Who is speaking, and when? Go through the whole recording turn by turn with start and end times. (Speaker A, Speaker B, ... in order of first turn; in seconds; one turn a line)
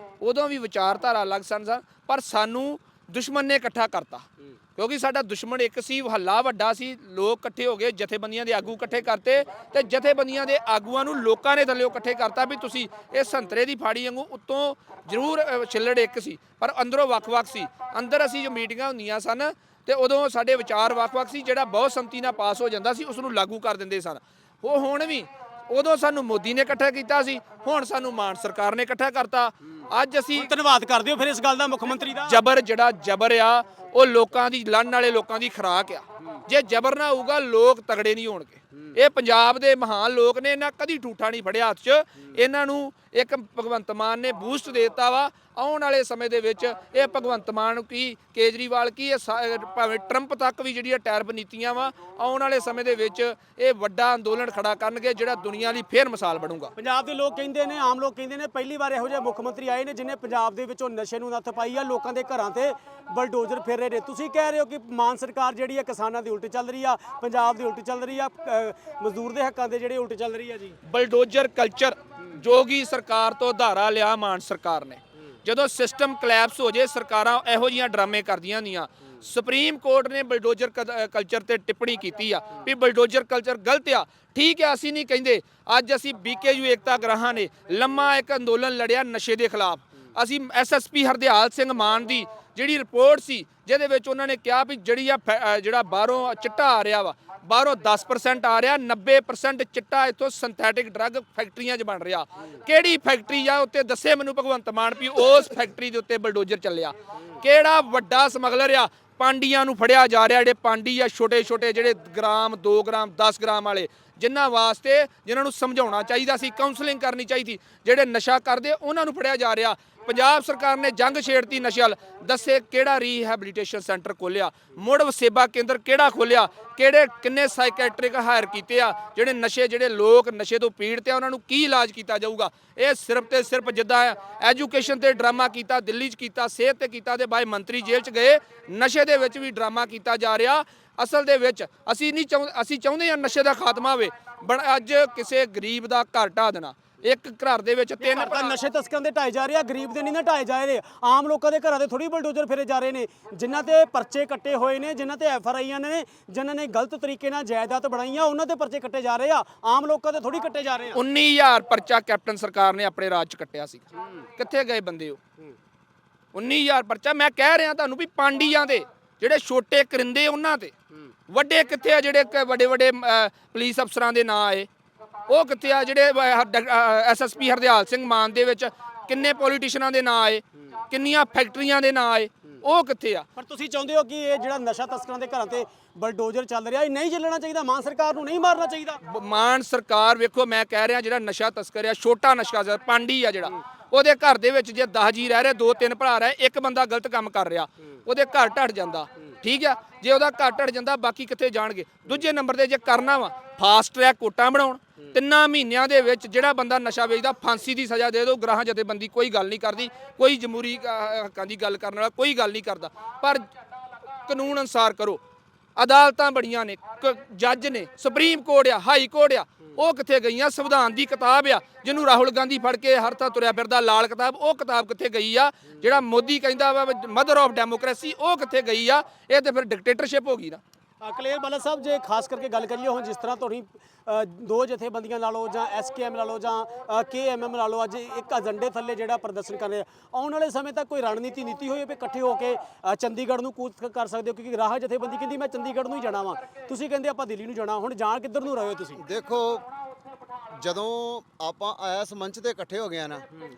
Speaker A: 0.2-30.5
Speaker B: 30.3-32.4
Speaker A: 32.2-56.7
Speaker B: 56.8-70.8
Speaker A: 70.8-148.6
Speaker B: 148.0-161.0
Speaker A: 160.9-165.2
Speaker A: 166.3-170.7
Speaker A: 171.3-174.7
Speaker A: 175.3-183.2
Speaker B: 183.4-189.0
Speaker A: 189.0-213.4
Speaker A: 214.2-215.2
Speaker A: 215.8-230.6
Speaker B: 231.0-249.0
Speaker C: 249.0-249.7
Speaker C: 250.6-253.2